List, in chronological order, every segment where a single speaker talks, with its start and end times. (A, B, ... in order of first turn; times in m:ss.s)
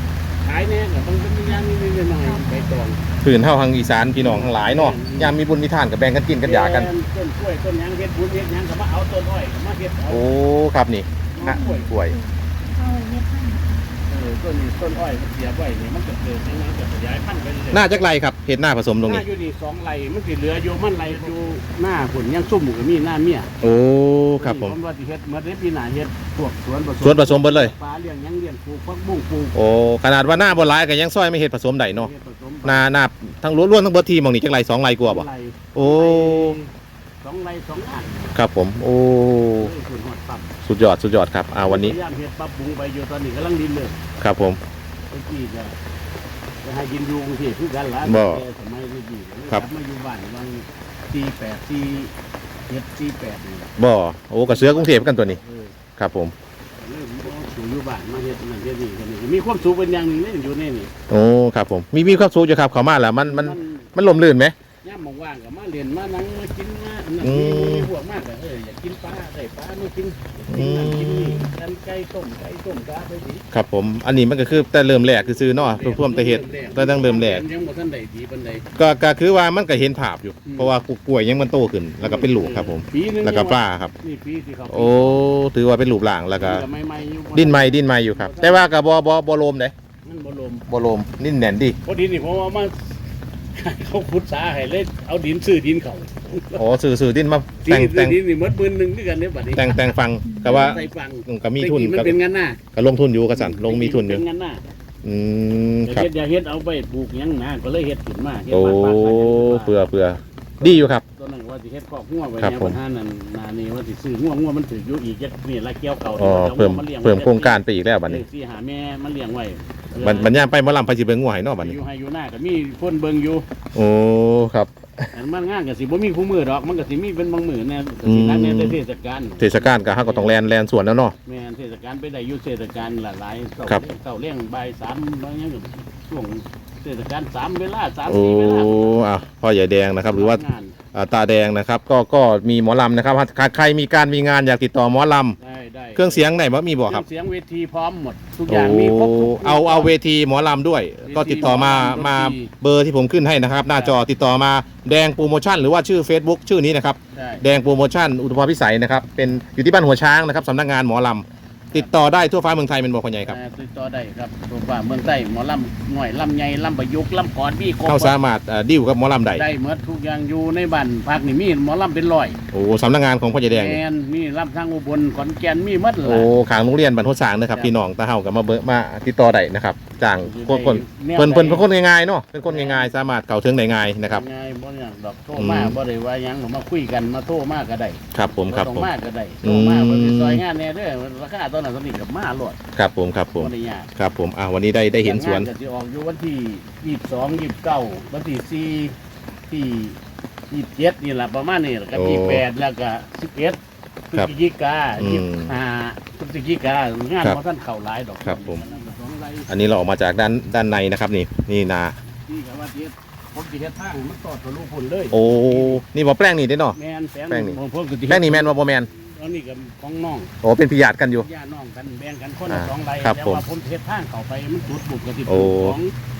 0:00.4-0:03.0 A
0:03.2-0:06.9 B
0:04.1-0:05.4 A
0:06.4-0:10.3 A
0:10.1-0:12.2 B
0:11.3-0:12.0 A
0:11.5-0:13.8 C
0:14.1-0:18.1 A
0:17.7-0:19.2 B
0:19.0-0:23.6 A
0:23.6-0:24.7 B
0:24.4-0:29.6 A
0:27.0-0:27.7 B
0:29.5-0:32.1 B
0:30.2-0:30.7 A
0:31.9-0:33.0 A
0:32.6-0:36.6 B
0:35.0-0:36.7 A
0:37.2-0:38.4 A
0:38.3-0:39.7 B
0:39.5-0:40.6 A
0:40.6-0:42.0 B
0:41.6-0:44.0 A
0:44.2-0:44.6 B
0:45.1-0:45.8 A
0:46.6-0:52.1 A
0:48.0-0:48.4 B
0:52.7-0:53.7 A
0:53.8-0:55.4 B
0:54.5-0:55.8 A
0:56.0-0:56.3 B
0:56.8-1:00.9 A
1:01.1-1:04.5 B
1:02.0-1:02.3 A
1:03.1-1:13.4 A
1:07.2-1:07.9 B
1:10.5-1:11.5 B
1:13.5-1:17.4 B
1:14.8-1:18.6 A
1:18.8-1:23.9 B
1:20.4-1:20.7 A
1:22.0-1:25.3 A
1:24.7-1:26.6 B
1:26.4-1:28.7 A
1:27.3-1:29.7 B
1:30.0-1:30.6 A
1:30.7-1:31.8 B
1:31.8-1:33.0 A
1:33.5-1:36.7 A
1:36.5-1:38.2 B
1:37.6-1:42.6 A
1:39.5-1:42.2 B
1:42.7-1:44.2 B
1:43.3-1:44.6 A
1:45.0-1:46.1 B
1:45.8-1:49.9 A
1:48.5-1:51.0 B
1:50.6-2:00.5 A
1:52.4-1:52.8 B
1:56.1-1:58.2 B
2:00.0-2:01.8 B
2:01.6-2:03.5 A
2:03.7-2:05.1 B
2:05.1-2:10.4 A
2:08.0-2:08.8 B
2:09.4-2:11.1 B
2:11.2-2:19.0 A
2:18.0-2:25.4 B
2:20.0-2:20.8 A
2:25.4-2:29.9 A
2:26.0-2:27.0 B
2:28.5-2:43.4 B
2:31.0-2:32.5 A
2:33.7-2:34.0 A
2:37.1-2:37.5 A
2:41.7-2:42.0 A
2:43.2-2:48.2 A
2:47.8-2:49.4 B
2:49.3-2:52.4 A
2:52.5-2:53.8 B
2:53.5-2:56.3 A
2:56.0-3:04.2 B
2:57.5-2:57.8 A
3:00.2-3:01.7 A
3:02.4-3:02.9 A
3:04.0-3:12.6 A
3:05.4-3:05.8 B
3:08.1-3:08.9 B
3:09.4-3:10.4 B
3:12.7-3:15.5 B
3:13.3-3:13.9 A
3:15.0-3:19.0 A
3:19.5-3:20.0 A
3:20.5-3:23.6 A
3:21.9-3:22.4 B
3:24.1-3:29.5 A
3:25.0-3:25.6 B
3:28.2-3:28.6 B
3:29.5-3:31.9 B
3:32.3-3:35.8 A
3:35.1-3:36.8 B
3:36.7-3:40.3 A
3:37.3-3:38.9 B
3:40.4-3:41.3 B
3:41.2-3:45.9 A
3:42.5-3:43.4 B
3:45.2-3:45.8 B